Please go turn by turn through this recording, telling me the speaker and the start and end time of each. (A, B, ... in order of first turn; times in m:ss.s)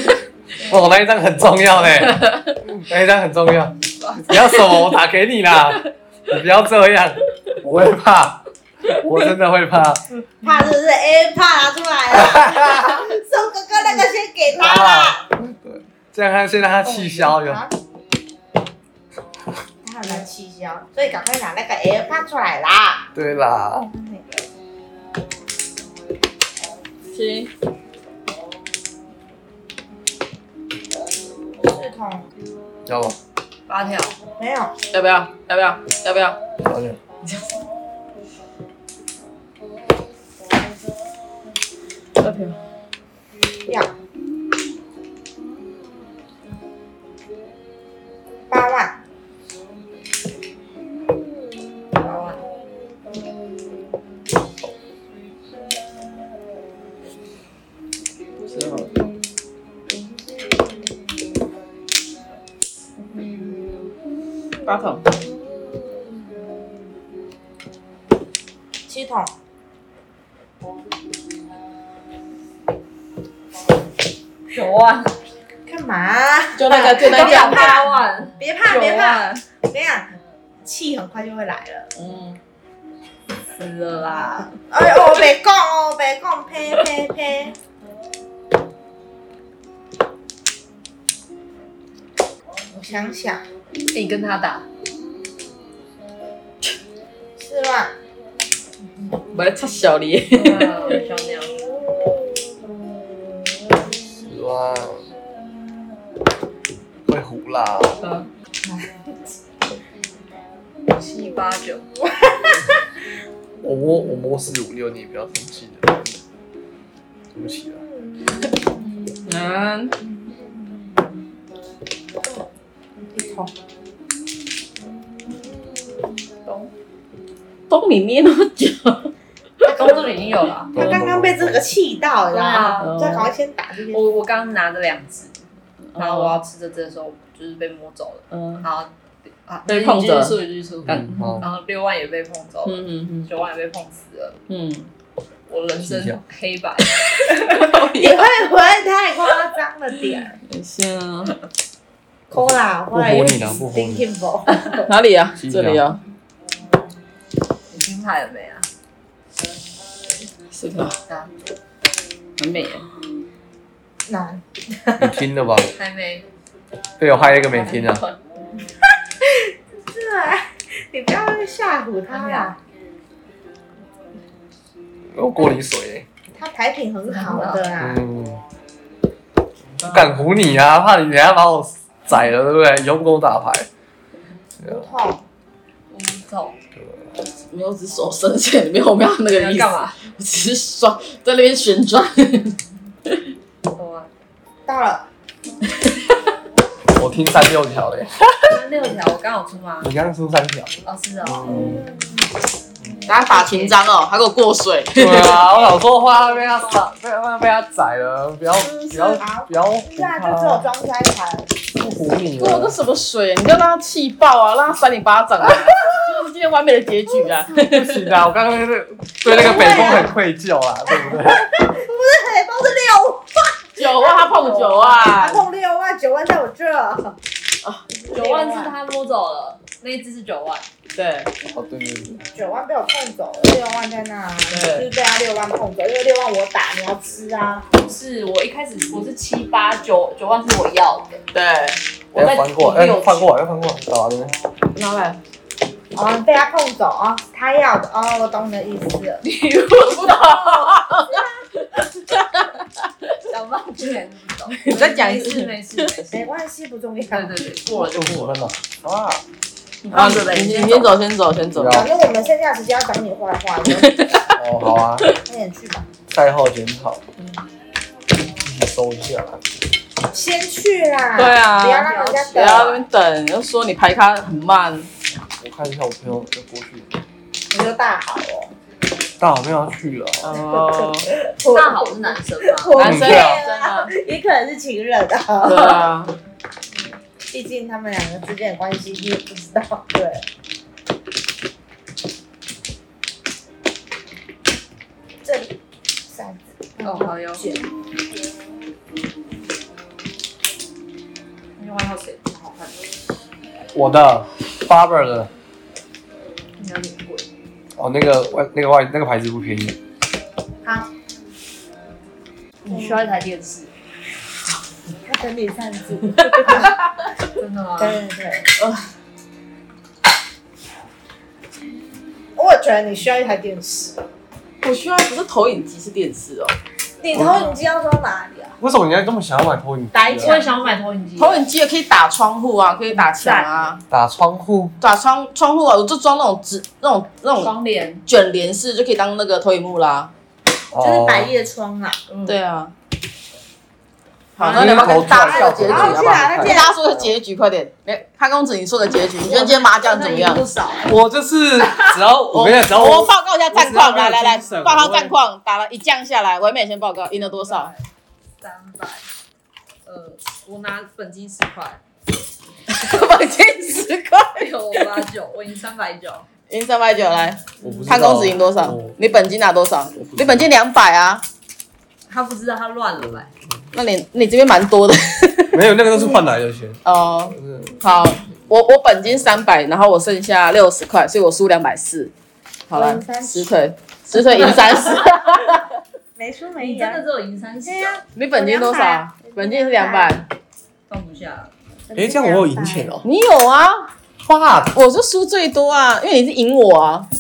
0:00.6-0:10.0 A
0:04.0-0:04.5 B
0:10.4-0:15.2 C
0:12.1-0:13.0 A
0:14.6-0:17.6 A
0:16.8-0:17.7 C
0:19.8-0:23.1 C
0:23.1-0:23.9 A
0:23.9-0:24.3 C
0:27.1-0:27.5 D
0:31.6-0:32.3 C
0:32.8-0:33.2 A
0:33.7-0:34.2 B
0:34.4-0:34.7 C
0:34.9-0:36.4 D
0:36.6-0:37.0 A
0:42.2-0:42.6 D
0:48.5-0:49.0 C
0:52.0-0:52.4 B
0:58.4-0:58.9 D
1:04.6-1:05.1 D
1:08.9-1:09.3 C
1:14.5-1:15.1 B
1:15.7-1:20.1 C
1:16.6-1:17.8 D
1:17.0-1:19.3 B
1:18.7-1:19.3 D
1:20.6-1:21.9 C
1:22.0-1:22.4 B
1:23.4-1:24.6 B
1:24.3-1:27.5 C
1:32.7-1:33.4 C
1:33.9-1:34.6 B
1:37.4-1:37.9 C
1:39.3-1:41.0 D
1:40.3-1:41.6 B
1:42.0-1:42.4 C
1:44.2-1:45.1 A
1:47.1-1:48.1 A
1:48.0-1:48.3 D
1:48.6-1:48.9 C
1:51.0-1:51.8 B
1:52.2-1:52.5 C
1:53.6-1:56.2 A
1:57.3-1:57.8 A
1:57.8-1:58.7 C
1:59.2-1:59.9 D
2:00.1-2:00.8 C
2:02.2-2:03.5 C
2:05.2-2:05.8 C
2:06.4-2:06.7 B
2:07.7-2:09.1 D
2:09.6-2:10.1 C
2:09.6-2:10.9 B
2:10.7-2:11.7 A
2:10.7-2:14.1 C
2:12.3-2:13.2 B
2:12.8-2:13.3 D
2:13.9-2:15.4 B
2:15.9-2:16.4 D
2:16.0-2:18.9 B
2:18.3-2:18.6 D
2:19.4-2:24.4 B
2:19.7-2:20.4 D
2:20.9-2:21.4 A
2:22.6-2:23.3 D
2:24.5-2:24.9 D
2:25.5-2:27.8 B
2:25.8-2:26.2 A
2:27.3-2:28.3 D
2:27.7-2:30.4 C
2:30.4-2:31.4 D
2:32.3-2:34.8 C
2:32.3-2:34.0 A
2:34.7-2:36.0 D
2:35.4-2:35.9 A
2:37.7-2:38.7 B
2:40.5-2:41.0 D
2:41.1-2:41.3 B
2:42.4-2:42.9 D
2:44.1-2:44.4 C
2:45.0-2:45.7 A
2:45.7-2:46.3 B
2:47.0-2:48.0 A
2:47.6-2:48.2 B
2:49.2-2:52.6 C
2:52.1-2:52.5 B
2:55.1-2:56.1 A
2:56.3-2:58.0 C
2:57.1-2:57.7 B
2:57.8-2:58.4 A
2:59.8-3:03.7 A
3:04.6-3:04.8 A
3:04.6-3:05.2 C
3:05.9-3:06.6 B
3:06.7-3:07.1 A
3:07.3-3:12.6 D
3:09.3-3:10.0 B
3:13.8-3:14.1 B
3:14.7-3:15.1 C
3:16.9-3:18.6 A
3:18.5-3:19.9 B
3:19.8-3:20.7 A
3:20.8-3:21.8 B
3:21.2-3:21.8 A
3:21.5-3:22.3 C
3:23.1-3:25.4 D
3:23.2-3:23.8 B
3:24.9-3:30.6 A
3:25.6-3:26.8 B
3:29.1-3:31.5 C
3:31.8-3:32.8 A
3:32.4-3:38.1 D
3:37.6-3:41.5 A
3:39.3-3:40.1 C
3:40.9-3:44.2 C
3:43.8-3:45.4 D
3:44.2-3:45.2 B
3:45.1-3:47.2 C
3:47.9-3:48.7 C
3:48.1-3:50.7 B
3:50.9-3:51.3 D
3:51.4-3:52.2 A
3:52.3-3:57.6 C
3:54.5-3:54.9 D
3:57.8-4:01.2 B
4:01.3-4:01.8 D
4:02.1-4:04.3 A
4:02.1-4:03.3 B
4:04.7-4:05.2 D
4:05.9-4:09.1 C
4:09.0-4:11.4 B
4:09.7-4:13.1 D
4:13.2-4:16.3 B
4:14.5-4:16.0 D
4:16.1-4:17.4 C
4:17.1-4:18.4 B
4:17.8-4:19.2 A
4:19.9-4:21.9 D
4:19.9-4:20.9 B
4:21.5-4:21.9 A
4:21.6-4:24.2 C
4:23.8-4:24.2 D
4:24.4-4:25.1 A
4:25.2-4:25.9 C
4:26.1-4:27.0 A
4:28.4-4:29.4 A
4:30.1-4:32.8 C
4:31.2-4:34.9 D
4:31.6-4:32.8 B
4:35.4-4:37.0 A
4:37.5-4:38.5 C
4:39.2-4:40.4 A
4:40.2-4:41.1 D
4:40.7-4:45.8 C
4:41.4-4:42.7 B
4:42.7-4:43.9 D
4:42.8-4:43.4 A
4:45.4-4:46.1 D
4:45.5-4:45.8 B
4:47.3-4:50.2 C
4:55.2-4:55.5 C
4:56.1-4:57.7 C
4:56.8-4:57.4 B
5:01.6-5:02.8 B
5:03.7-5:05.3 A
5:06.6-5:07.3 B
5:07.8-5:09.8 A
5:10.6-5:10.9 C
5:12.6-5:13.7 B
5:12.7-5:13.1 C
5:15.1-5:16.7 C
5:16.3-5:16.6 D
5:17.3-5:18.0 B
5:17.8-5:18.5 C
5:18.6-5:18.9 D
5:22.4-5:24.0 C
5:24.6-5:26.6 D
5:27.0-5:28.6 C
5:27.1-5:27.6 B
5:28.6-5:30.4 A
5:29.9-5:30.6 C
5:30.1-5:31.5 B
5:31.2-5:33.8 D
5:32.9-5:33.7 B
5:33.9-5:34.8 A
5:34.8-5:37.5 D
5:37.4-5:38.0 B
5:38.0-5:40.1 D
5:40.7-5:41.3 A
5:40.8-5:42.0 C
5:42.1-5:42.4 B
5:42.2-5:42.7 D
5:44.4-5:50.4 D
5:44.4-5:46.7 A
5:44.5-5:46.8 C
5:49.2-5:51.0 B
5:50.8-5:55.2 A
5:51.6-5:51.9 B
5:52.3-5:57.7 D
5:57.1-5:57.9 B
5:58.4-5:59.0 B
5:59.8-6:01.8 B
6:02.7-6:05.0 D
6:04.3-6:06.3 B
6:06.5-6:11.2 D
6:07.6-6:09.0 A
6:07.6-6:08.3 B
6:10.0-6:10.5 A
6:12.1-6:13.3 B
6:13.7-6:15.7 D
6:15.5-6:17.8 A
6:16.8-6:22.1 D
6:22.7-6:25.7 D
6:22.7-6:23.6 C
6:26.2-6:27.0 C
6:26.6-6:28.0 B
6:27.6-6:30.2 C
6:28.1-6:30.2 D
6:30.9-6:31.5 B
6:31.9-6:33.0 C
6:31.9-6:33.1 A
6:33.0-6:33.9 D
6:34.2-6:34.7 A
6:34.7-6:37.1 D